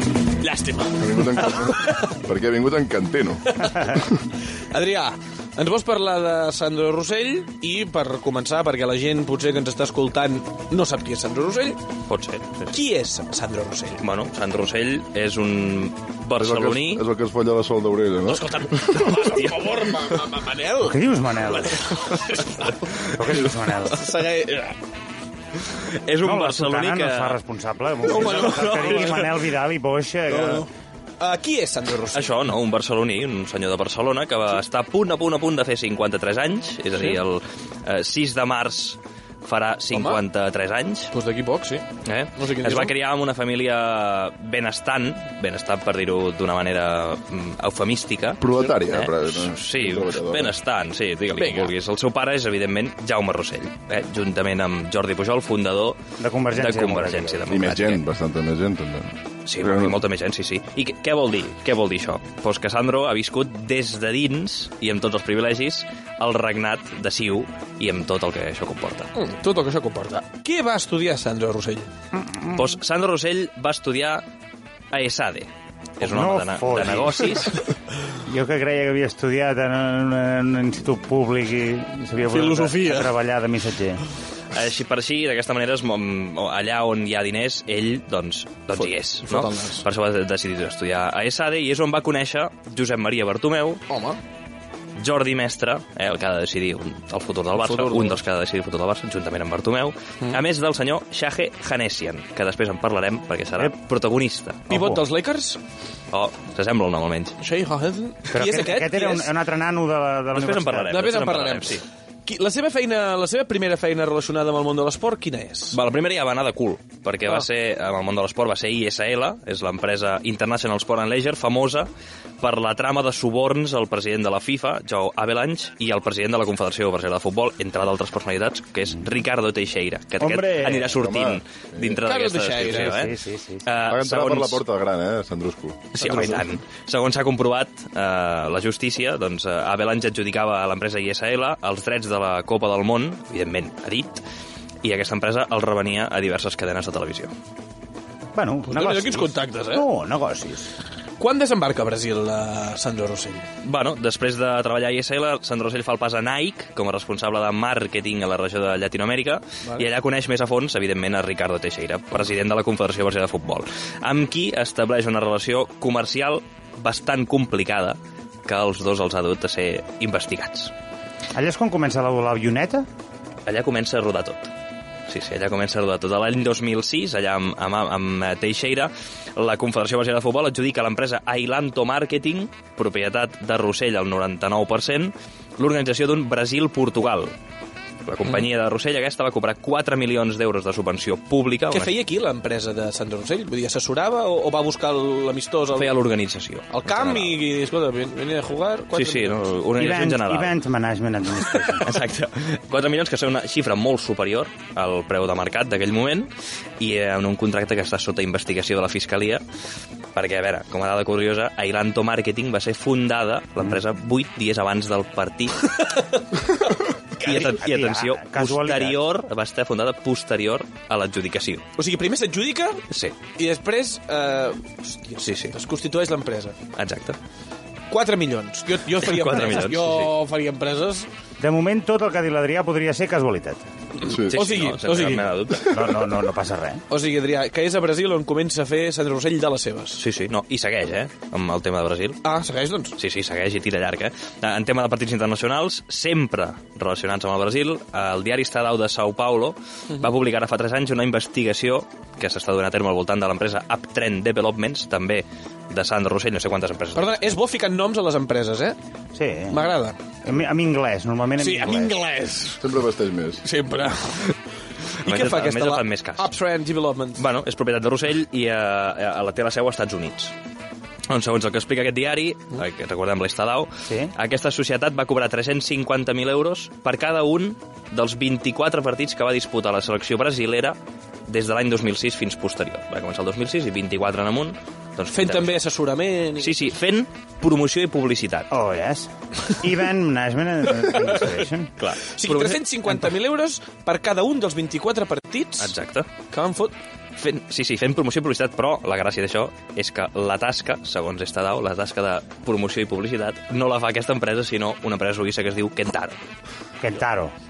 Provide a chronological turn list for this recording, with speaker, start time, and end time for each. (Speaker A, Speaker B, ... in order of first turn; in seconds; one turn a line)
Speaker A: 0.4-2.1
Speaker B: 1.0-3.6
Speaker A: 3.6-4.0
Speaker A: 4.7-11.8
Speaker C: 12.1-12.7
Speaker A: 12.7-14.0
Speaker C: 14.0-17.0
Speaker B: 16.4-19.3
Speaker A: 18.3-24.8
Speaker D: 20.8-21.8
Speaker D: 23.1-24.0
Speaker C: 26.0-27.4
Speaker D: 26.2-30.6
Speaker A: 28.0-29.5
Speaker A: 30.3-30.7
Speaker A: 31.2-32.3
Speaker C: 32.1-41.1
Speaker A: 36.9-37.2
Speaker A: 39.9-40.2
Speaker A: 41.1-42.9
Speaker C: 42.0-56.0
Speaker B: 48.4-50.5
Speaker A: 51.3-51.7
Speaker D: 56.2-57.4
Speaker C: 56.5-58.0
Speaker B: 57.5-60.0
Speaker C: 59.5-69.1
Speaker A: 69.1-71.9
Speaker D: 72.2-72.6
Speaker C: 72.5-74.2
Speaker C: 74.9-75.5
Speaker C: 76.0-77.6
Speaker D: 76.0-77.3
Speaker D: 78.3-84.0
Speaker A: 82.3-83.1
Speaker C: 84.5-93.8
Speaker A: 88.7-89.8
Speaker A: 93.9-94.2
Speaker C: 95.0-105.0
Speaker A: 97.5-98.2
Speaker A: 104.7-105.6
Speaker C: 106.1-107.4
Speaker A: 107.4-109.3
Speaker D: 108.3-110.9
Speaker C: 110.3-111.8
Speaker A: 110.9-115.8
Speaker C: 115.7-121.9
Speaker C: 122.4-133.1
Speaker D: 130.2-130.9
Speaker B: 130.9-132.0
Speaker A: 132.0-133.1
Speaker D: 132.7-133.6
Speaker C: 133.7-134.6
Speaker B: 133.8-136.0
Speaker A: 135.9-136.4
Speaker C: 135.9-144.2
Speaker C: 144.8-147.3
Speaker D: 148.3-150.7
Speaker A: 148.7-149.9
Speaker A: 151.2-153.5
Speaker C: 153.6-170.7
Speaker D: 171.3-172.8
Speaker C: 173.5-174.5
Speaker C: 175.1-187.3
Speaker C: 188.0-191.9
Speaker A: 191.7-195.9
Speaker C: 195.7-197.4
Speaker A: 196.7-199.4
Speaker C: 198.9-200.6
Speaker D: 199.8-201.9
Speaker C: 201.8-209.4
Speaker C: 210.1-215.7
Speaker A: 217.2-217.6
Speaker C: 217.2-221.7
Speaker D: 217.2-219.2
Speaker A: 221.8-222.8
Speaker C: 222.9-223.2
Speaker A: 223.3-226.6
Speaker C: 225.2-225.5
Speaker C: 226.8-227.2
Speaker A: 227.9-231.1
Speaker C: 228.9-230.1
Speaker D: 231.4-233.6
Speaker B: 234.0-234.4
Speaker A: 234.1-235.6
Speaker C: 234.1-235.9
Speaker D: 235.7-236.8
Speaker A: 236.9-240.0
Speaker C: 240.0-242.2
Speaker A: 242.2-242.9
Speaker C: 243.0-257.4
Speaker A: 256.9-258.8
Speaker D: 259.1-259.7
Speaker A: 259.5-259.9
Speaker D: 260.2-261.9
Speaker A: 261.4-262.6
Speaker B: 262.6-263.4
Speaker A: 263.4-264.4
Speaker A: 265.0-267.2
Speaker C: 265.1-266.3
Speaker C: 267.2-270.3
Speaker C: 271.1-280.8
Speaker D: 273.9-274.1
Speaker C: 281.3-285.6
Speaker A: 285.1-286.6
Speaker C: 286.4-288.5
Speaker D: 288.5-291.7
Speaker C: 291.8-292.6
Speaker A: 292.1-295.7
Speaker C: 295.6-296.1
Speaker A: 296.3-296.7
Speaker C: 297.2-306.2
Speaker D: 306.8-307.3